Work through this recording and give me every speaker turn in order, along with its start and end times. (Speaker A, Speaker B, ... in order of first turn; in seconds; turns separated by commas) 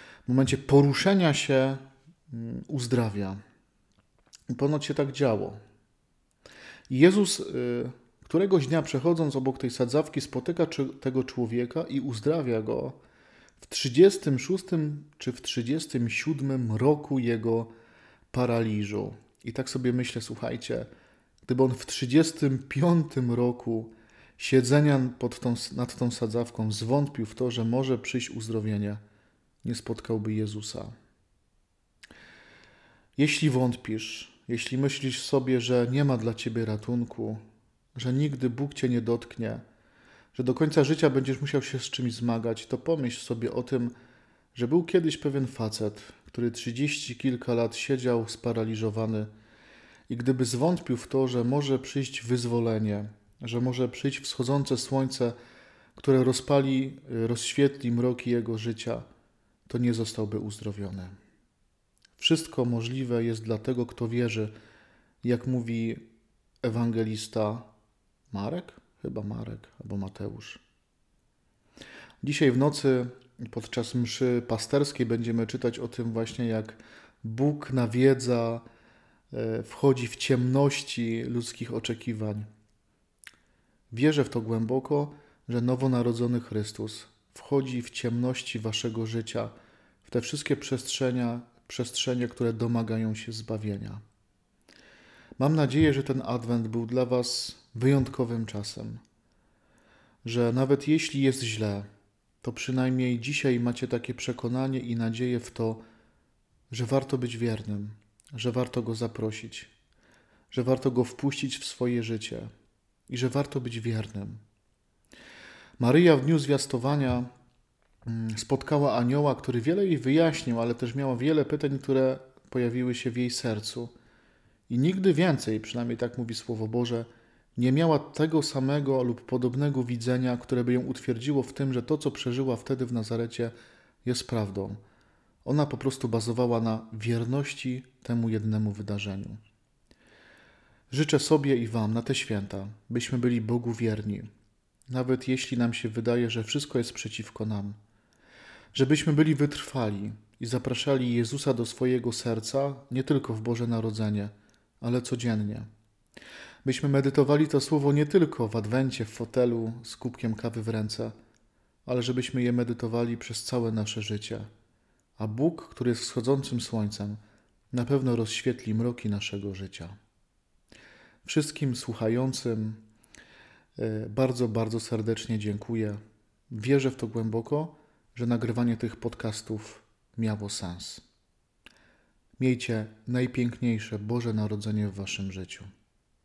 Speaker A: 0.3-3.4, Speaker A: 4.5-5.6, Speaker A: 6.9-13.0, Speaker A: 13.6-17.7, Speaker A: 18.3-20.9, Speaker A: 21.5-29.0, Speaker A: 29.6-30.9, Speaker A: 33.2-37.4, Speaker A: 38.0-39.6, Speaker A: 40.3-43.9, Speaker A: 44.5-49.3, Speaker A: 50.1-55.4, Speaker A: 56.0-59.1, Speaker A: 59.7-61.1, Speaker A: 62.2-64.5, Speaker A: 65.2-66.0, Speaker A: 66.6-67.7, Speaker A: 68.3-70.6, Speaker A: 72.2-78.7, Speaker A: 79.3-82.5, Speaker A: 83.9-94.0, Speaker A: 95.4-99.0, Speaker A: 100.2-101.9, Speaker A: 102.4-105.8, Speaker A: 106.7-109.7, Speaker A: 110.5-112.5, Speaker A: 113.1-114.4, Speaker A: 115.8-117.3, Speaker A: 118.1-123.9, Speaker A: 124.7-133.5, Speaker A: 134.1-134.8, Speaker A: 135.4-139.4, Speaker A: 140.9-144.3, Speaker A: 144.9-147.8, Speaker A: 148.7-155.7, Speaker A: 156.7-161.2, Speaker A: 161.9-164.5, Speaker A: 165.2-167.2, Speaker A: 167.7-170.0, Speaker A: 171.2-172.8, Speaker A: 173.8-176.0, Speaker A: 176.5-181.0, Speaker A: 182.4-185.7